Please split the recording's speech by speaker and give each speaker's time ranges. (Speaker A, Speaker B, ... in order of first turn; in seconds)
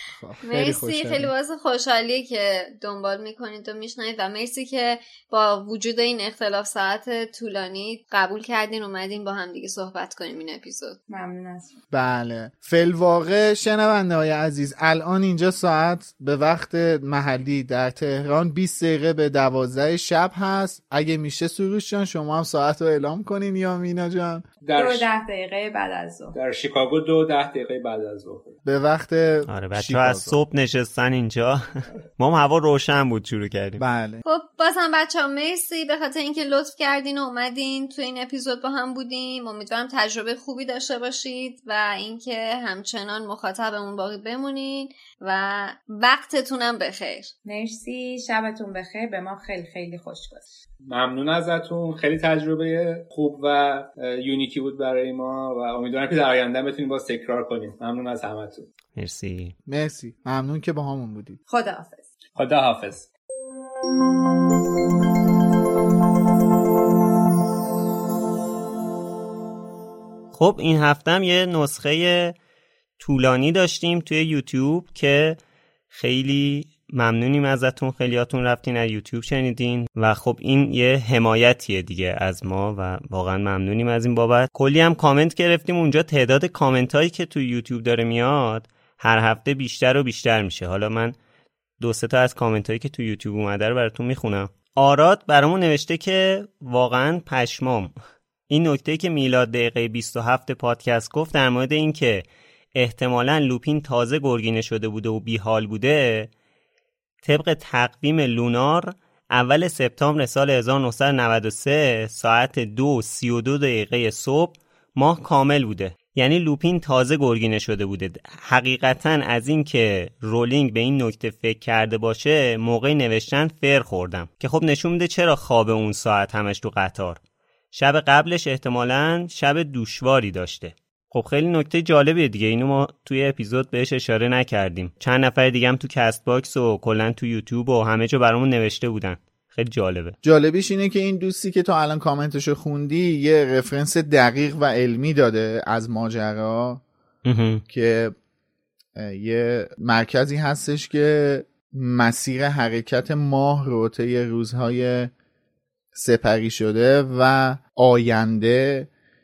Speaker A: 0.2-1.3, 11.9-24.4, 28.6-30.4, 33.8-34.2, 59.7-61.4, 140.2-146.8, 147.7-148.1, 148.9-155.1, 155.9-158.9
Speaker B: 0.4-11.0, 34.2-47.3
Speaker C: 11.1-11.8, 24.7-26.4, 47.4-50.5, 61.5-62.1
Speaker D: 24.6-25.1, 26.3-28.5, 50.9-58.7, 62.4-63.1
Speaker E: 29.5-33.8, 59.0-59.5, 70.3-72.3, 73.0-75.4, 75.9-91.2, 91.8-97.9, 98.5-106.3, 107.2-127.2, 127.7-140.2, 147.2-147.6